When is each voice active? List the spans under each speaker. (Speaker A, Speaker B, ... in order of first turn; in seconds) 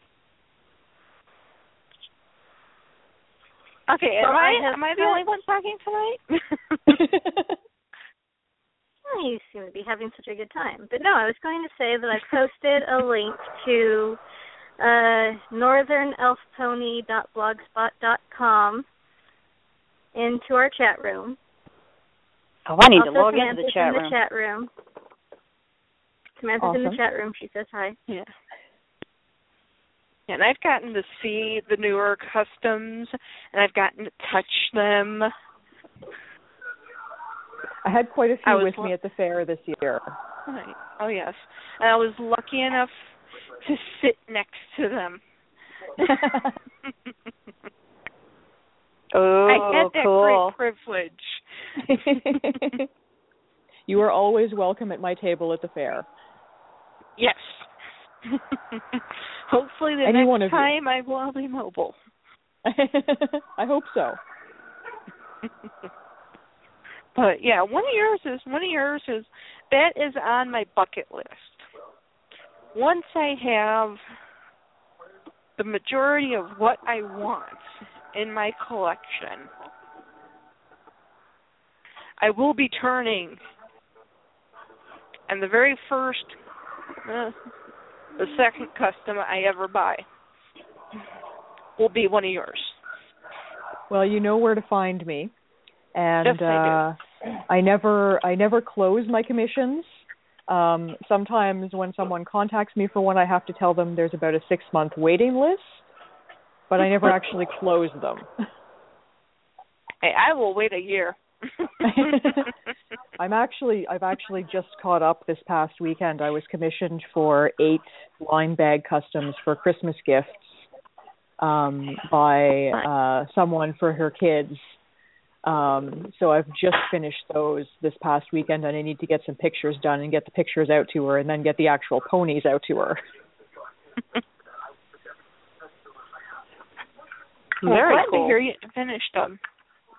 Speaker A: 3.9-6.9, 30.3-35.3, 38.4-38.9, 40.5-42.9, 43.6-45.2, 49.5-52.8, 57.2-57.7, 58.2-62.0, 67.1-71.7, 72.7-74.0, 75.6-79.5, 82.2-83.4, 85.3-86.3, 87.0-87.3, 88.2-90.0, 91.8-92.8, 96.2-96.8, 110.0-112.0, 137.6-139.4
Speaker B: 4.2-5.2, 9.1-14.2, 14.8-18.9, 20.1-21.4, 22.9-24.7, 26.4-28.0
Speaker C: 6.9-7.5, 26.6-27.0, 37.8-40.1, 46.0-46.5, 51.8-52.9, 53.9-56.0, 60.0-60.7, 62.6-64.2, 93.9-95.3, 95.9-97.0, 97.5-105.8, 106.7-108.3, 111.8-112.5, 113.2-120.6, 121.4-124.8, 125.4-133.0
Speaker D: 22.7-24.1, 49.1-50.5, 137.6-138.4